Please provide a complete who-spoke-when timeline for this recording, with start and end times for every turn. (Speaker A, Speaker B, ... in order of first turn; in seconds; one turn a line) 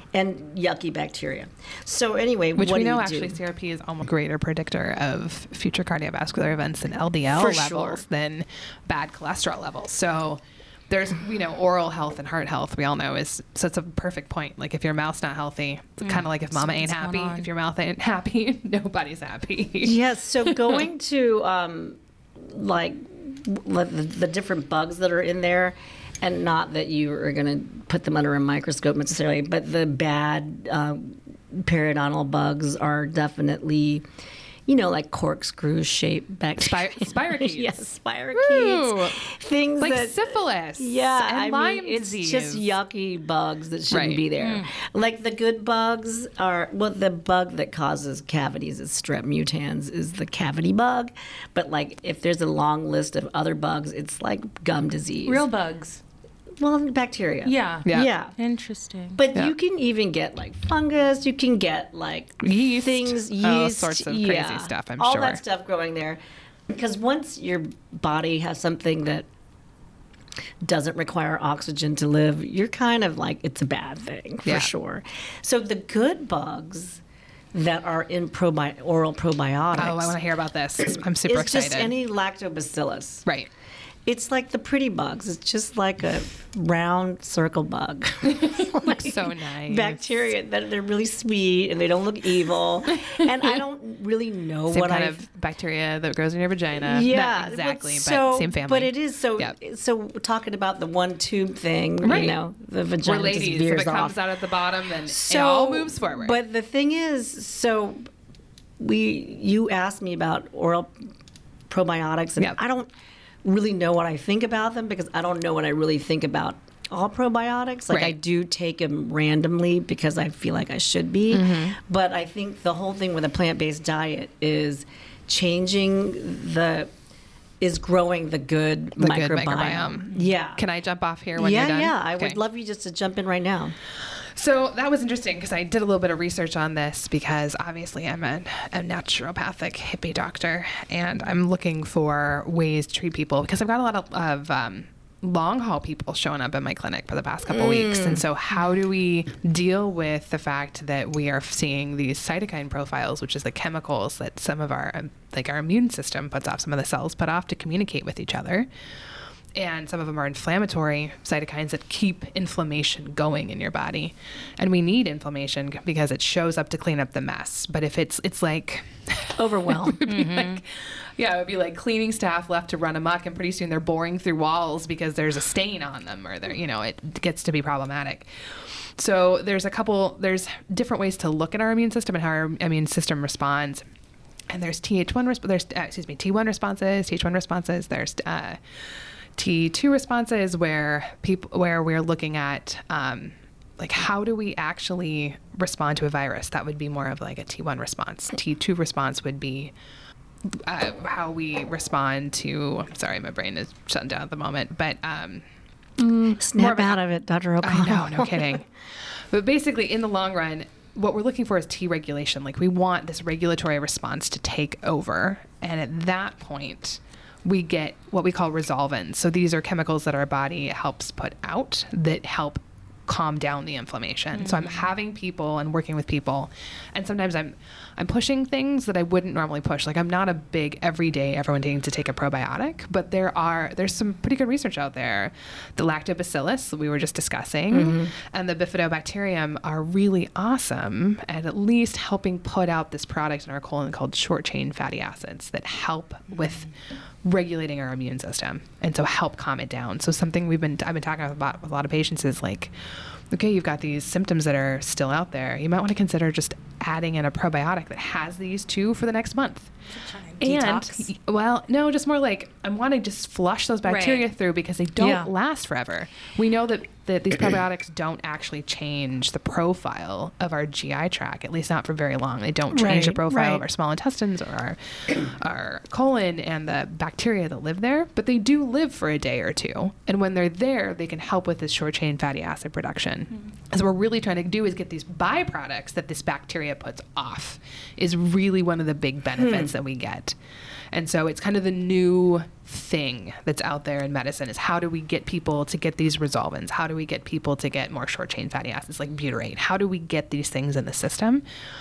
Speaker A: 0.1-3.4
Speaker B: 2.6-20.0
Speaker A: 7.3-8.1
Speaker C: 16.0-17.5
Speaker A: 19.8-34.1
Speaker A: 34.7-55.5
Speaker B: 36.6-37.7
Speaker B: 38.3-39.2
Speaker B: 39.8-42.8
Speaker B: 43.9-44.2
Speaker C: 44.4-44.7
Speaker C: 55.2-56.0
Speaker A: 56.6-58.4
Speaker C: 57.4-59.2
Speaker A: 59.2-66.2
Speaker B: 62.4-65.4
Speaker A: 66.7-69.3
Speaker A: 70.6-77.0
Speaker B: 74.5-74.7
Speaker A: 77.5-80.2
Speaker B: 79.8-81.9
Speaker A: 80.9-83.2
Speaker A: 84.1-95.2
Speaker B: 88.3-90.2
Speaker B: 93.0-93.5
Speaker B: 94.7-99.5
Speaker A: 96.8-104.2
Speaker B: 102.0-102.4
Speaker B: 103.0-106.4
Speaker A: 105.1-108.1
Speaker A: 108.8-111.1
Speaker A: 111.7-112.9
Speaker A: 113.4-126.9
Speaker B: 117.9-118.2
Speaker B: 121.3-121.8
Speaker A: 127.6-130.6
Speaker B: 129.0-132.4
Speaker A: 131.4-133.8
Speaker B: 134.3-158.7
Speaker A: 147.5-148.2
Speaker B: 159.6-183.8
Speaker A: 169.4-170.0
Speaker C: 170.1-170.6
Speaker B: 184.5-188.6
Speaker B: 189.4-199.7
Speaker B: 200.6-205.4
Speaker A: 206.0-208.6
Speaker B: 206.6-207.0
Speaker B: 207.6-208.7
Speaker B: 209.3-246.7
Speaker C: 224.3-224.9
Speaker A: 237.7-238.1
Speaker B: 247.2-252.7
Speaker B: 253.3-259.7
Speaker C: 259.9-261.1
Speaker B: 260.4-290.4
Speaker C: 263.8-264.3
Speaker A: 265.0-265.3
Speaker A: 272.7-273.6
Speaker A: 289.4-289.7
Speaker B: 290.9-301.4